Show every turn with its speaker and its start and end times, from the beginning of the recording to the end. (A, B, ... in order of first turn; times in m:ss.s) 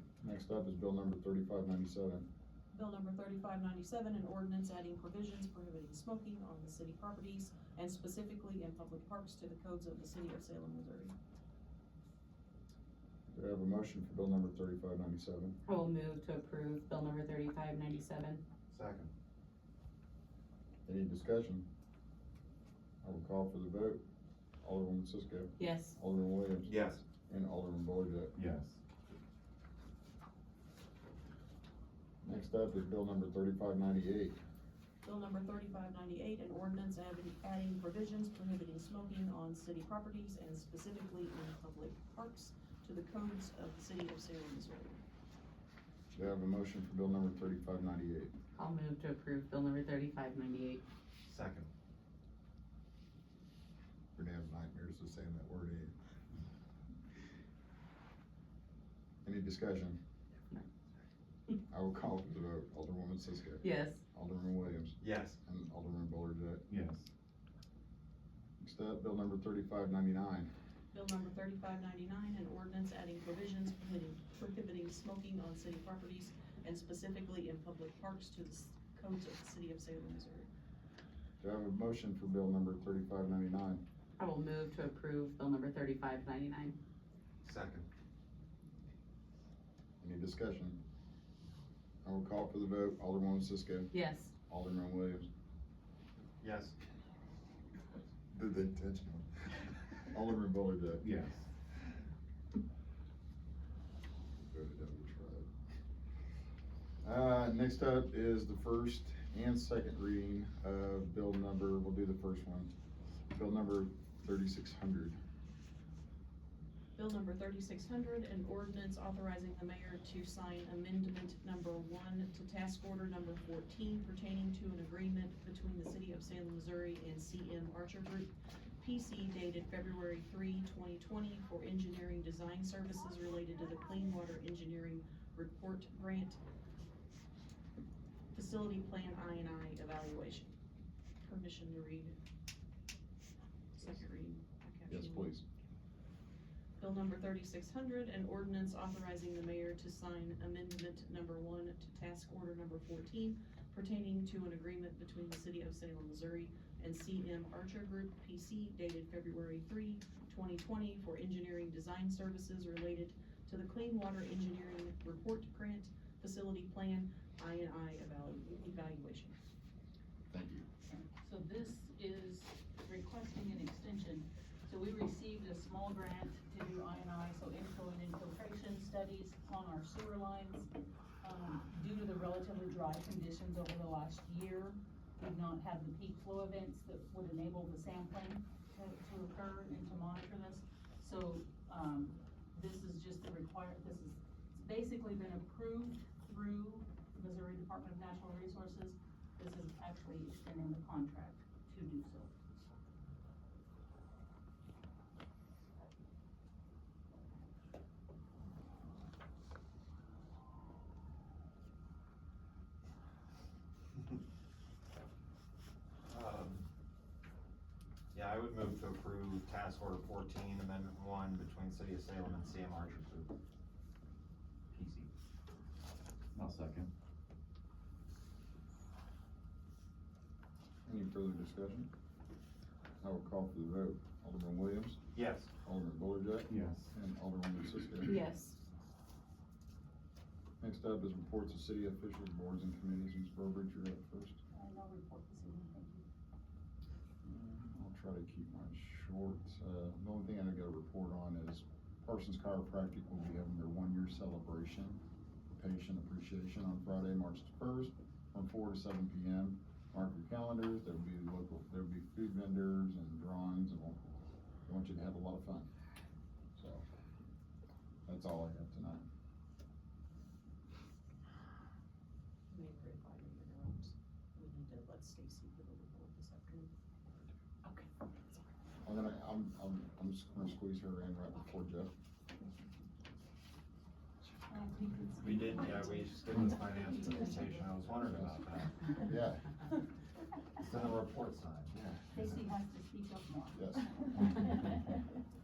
0:00.2-0:02.3 A
0:02.7-0:11.1 B
0:13.3-0:15.5 A
0:15.7-0:18.4 C
0:18.7-0:19.1 D
0:20.8-0:21.6 A
0:23.0-0:24.0 A
0:24.6-0:26.7 A
0:25.6-0:26.0 C
0:26.6-0:27.0 D
0:27.2-0:28.3 A
0:28.3-0:28.8 E
0:32.2-0:34.4 A
0:35.0-0:45.0 B
0:46.1-0:48.3 A
0:48.5-0:50.8 C
0:51.2-0:51.7 D
0:54.2-0:55.9 A
0:59.2-1:00.0 A
1:01.7-1:06.6 A
1:03.6-1:04.0 C
1:05.0-1:05.4 D
1:06.7-1:07.1 E
1:08.6-1:10.5 A
1:10.9-1:20.5 B
1:21.4-1:23.8 A
1:24.2-1:26.7 C
1:27.4-1:27.9 D
1:30.0-1:30.8 A
1:32.0-1:33.9 A
1:33.9-1:34.3 C
1:34.5-1:35.3 A
1:36.4-1:36.8 D
1:38.3-1:39.3 A
1:40.1-1:41.0 A
1:41.0-1:41.5 E
1:44.5-1:45.5 A
1:47.0-1:52.7 A
1:53.3-1:55.2 A
1:57.0-2:08.3 B
2:08.8-2:16.4 B
2:18.3-2:20.5 B
2:21.2-2:22.2 B
2:23.7-2:25.4 B
2:24.9-2:25.4 A
2:26.8-2:49.4 B
2:50.3-2:50.7 A
2:50.9-3:00.7 F
3:01.2-3:22.3 F
3:36.1-3:36.6 D
3:38.1-3:43.3 D
3:44.7-3:45.1 D
3:46.3-3:46.9 E
3:50.8-3:51.9 A
3:53.0-3:55.0 A
3:55.1-3:55.5 D
3:55.6-3:58.2 A
3:56.5-3:56.9 E
3:58.1-3:58.6 C
4:00.6-4:04.4 A
4:04.5-4:06.0 F
4:07.2-4:15.0 A
4:15.5-4:24.0 A
4:24.7-4:25.7 A
4:26.6-4:26.8 A
4:28.0-4:29.0 A
4:32.5-4:36.7 B
4:38.8-4:41.9 A
4:44.5-4:46.3 F
4:45.2-4:48.9 D
4:46.8-4:47.2 F
4:49.0-4:49.5 A
4:50.6-4:52.4 D
4:52.1-4:54.1 F
4:53.5-4:54.3 A